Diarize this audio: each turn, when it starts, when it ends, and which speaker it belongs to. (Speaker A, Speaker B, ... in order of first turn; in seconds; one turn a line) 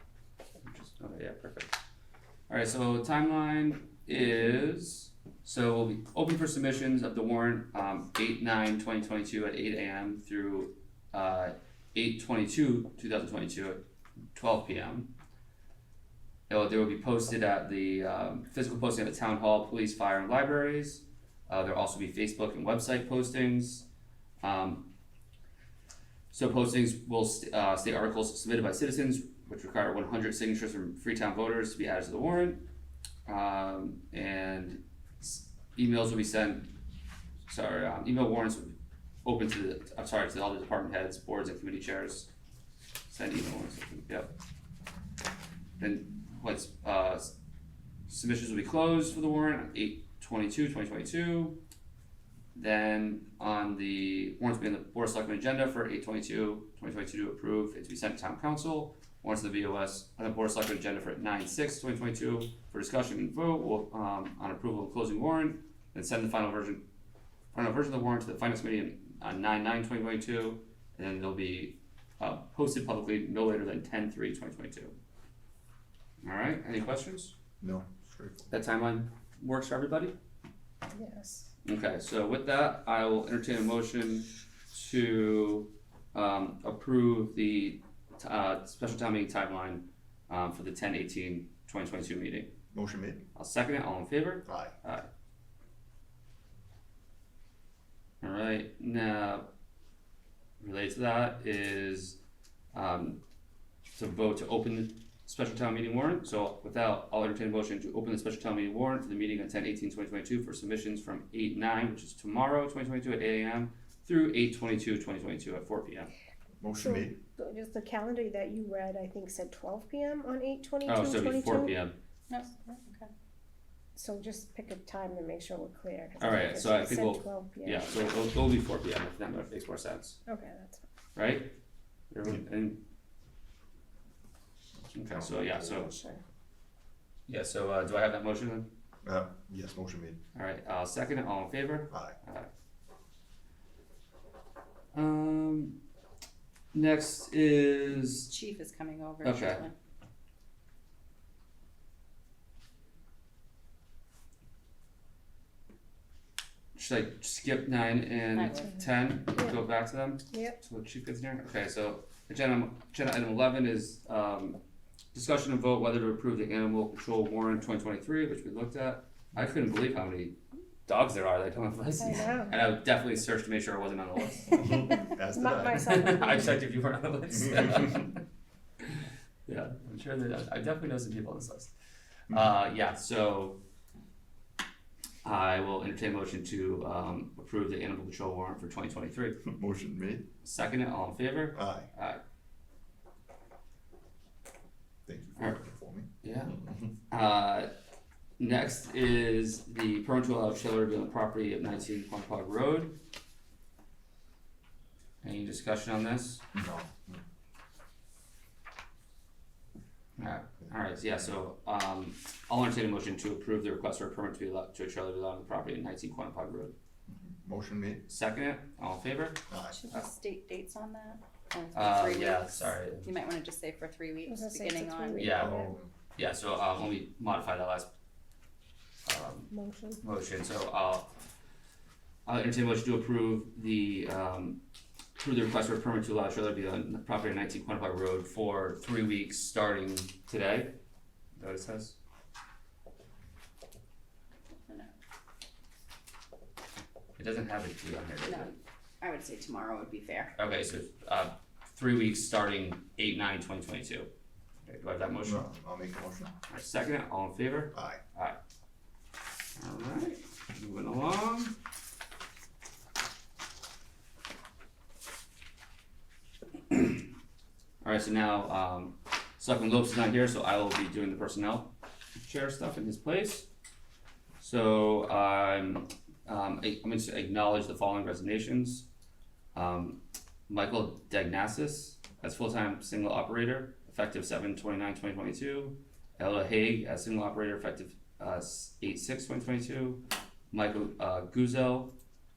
Speaker A: 0.6-1.8
Speaker A: 2.5-13.8
Speaker A: 14.3-15.1
Speaker A: 16.5-23.9
Speaker A: 24.4-24.9
Speaker A: 26.3-32.6
Speaker A: 33.3-36.7
Speaker A: 37.5-42.3
Speaker A: 43.1-44.3
Speaker A: 45.8-47.3
Speaker A: 48.1-51.6
Speaker A: 52.5-66.8
Speaker A: 67.5-75.0
Speaker A: 76.2-77.3
Speaker B: 77.6-78.5
Speaker A: 78.5-80.1
Speaker C: 80.9-81.5
Speaker A: 81.7-92.5
Speaker B: 92.7-93.2
Speaker A: 93.3-95.1
Speaker B: 94.5-94.7
Speaker A: 98.2-99.5
Speaker A: 100.6-102.2
Speaker A: 102.7-103.2
Speaker A: 104.0-116.1
Speaker B: 116.6-117.2
Speaker C: 116.8-121.8
Speaker A: 120.8-122.0
Speaker D: 122.3-123.1
Speaker C: 124.0-128.0
Speaker A: 126.2-130.2
Speaker C: 130.3-130.8
Speaker A: 131.2-131.6
Speaker A: 132.1-132.8
Speaker A: 134.9-135.9
Speaker B: 135.1-135.8
Speaker C: 135.3-136.2
Speaker A: 137.3-138.7
Speaker B: 139.0-140.2
Speaker A: 140.3-142.5
Speaker A: 144.9-145.8
Speaker A: 146.7-148.3
Speaker D: 148.3-149.8
Speaker A: 149.2-149.7
Speaker A: 156.8-164.6
Speaker D: 158.3-158.8
Speaker C: 160.3-160.6
Speaker A: 165.1-170.4
Speaker A: 170.9-175.1
Speaker C: 172.0-172.6
Speaker C: 174.6-176.6
Speaker B: 174.6-176.3
Speaker A: 175.7-178.2
Speaker A: 178.9-181.7
Speaker A: 182.3-183.6
Speaker A: 185.2-189.4
Speaker B: 189.5-190.2
Speaker A: 190.4-192.2
Speaker B: 191.5-191.9
Speaker B: 195.1-196.9
Speaker A: 196.2-196.5
Speaker A: 197.1-197.7
Speaker A: 198.4-203.0
Speaker A: 205.2-206.4
Speaker B: 206.5-207.2
Speaker A: 210.2-216.7
Speaker B: 217.1-218.0
Speaker A: 218.1-220.1
Speaker B: 219.5-219.8
Speaker D: 219.7-225.3
Speaker A: 221.7-223.1
Speaker C: 224.3-225.8
Speaker A: 225.2-227.9
Speaker B: 225.3-225.9
Speaker A: 229.1-231.1
Speaker C: 229.5-230.0
Speaker A: 232.3-234.6
Speaker A: 235.2-240.8
Speaker A: 241.4-242.0
Speaker A: 247.2-248.5
Speaker D: 248.2-250.3
Speaker A: 250.4-254.1
Speaker A: 254.7-255.5
Speaker B: 255.2-256.3
Speaker A: 256.5-258.4
Speaker B: 257.7-258.0
Speaker A: 259.6-261.6
Speaker A: 266.7-267.1
Speaker A: 267.8-273.5
Speaker A: 274.4-278.9
Speaker A: 279.6-291.9